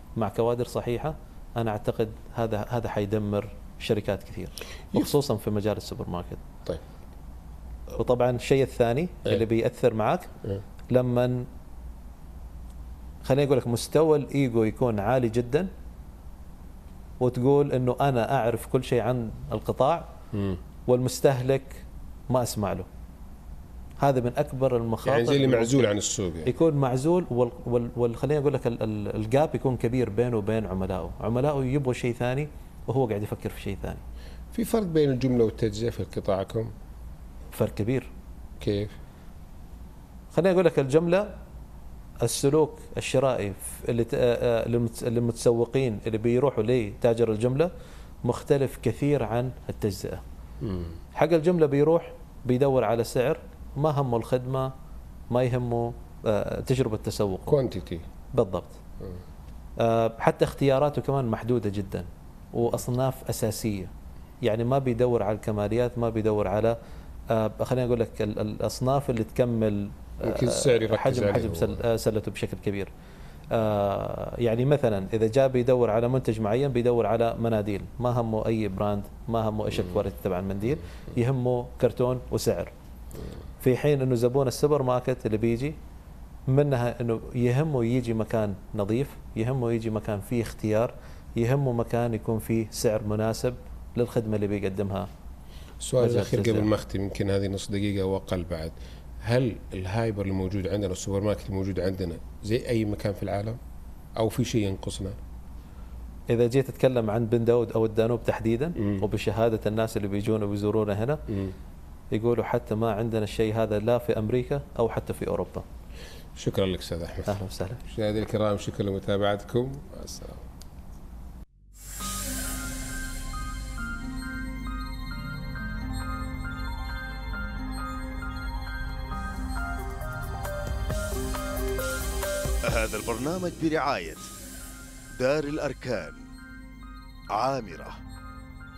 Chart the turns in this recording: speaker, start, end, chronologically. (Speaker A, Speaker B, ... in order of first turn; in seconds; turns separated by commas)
Speaker A: 0.2-6.4, Speaker A: 8.0-10.3, Speaker A: 10.9-11.5, Speaker A: 13.2-15.7, Speaker A: 17.2-20.1, Speaker B: 20.3-20.6, Speaker A: 20.9-22.9, Speaker A: 24.0-25.9, Speaker B: 25.0-26.5, Speaker A: 26.4-34.0, Speaker B: 34.5-36.7, Speaker A: 37.5-38.1, Speaker B: 38.6-39.0, Speaker A: 40.3-41.3, Speaker A: 42.2-47.7, Speaker A: 48.2-50.2, Speaker B: 50.6-51.0, Speaker A: 51.1-54.7, Speaker A: 55.3-57.6, Speaker B: 57.5-58.0, Speaker A: 58.3-58.8, Speaker A: 59.8-63.9, Speaker A: 64.4-66.8, Speaker A: 67.3-72.9, Speaker B: 70.2-71.8, Speaker A: 73.5-82.7, Speaker A: 83.6-85.8, Speaker A: 86.5-95.1, Speaker B: 95.8-103.6, Speaker A: 96.0-96.7, Speaker B: 104.2-105.2, Speaker A: 106.3-111.2, Speaker B: 108.8-109.0, Speaker B: 111.3-111.5, Speaker A: 112.1-115.6, Speaker B: 116.3-120.4, Speaker A: 117.2-117.8, Speaker C: 132.6-134.3, Speaker C: 135.1-136.3, Speaker C: 137.3-138.0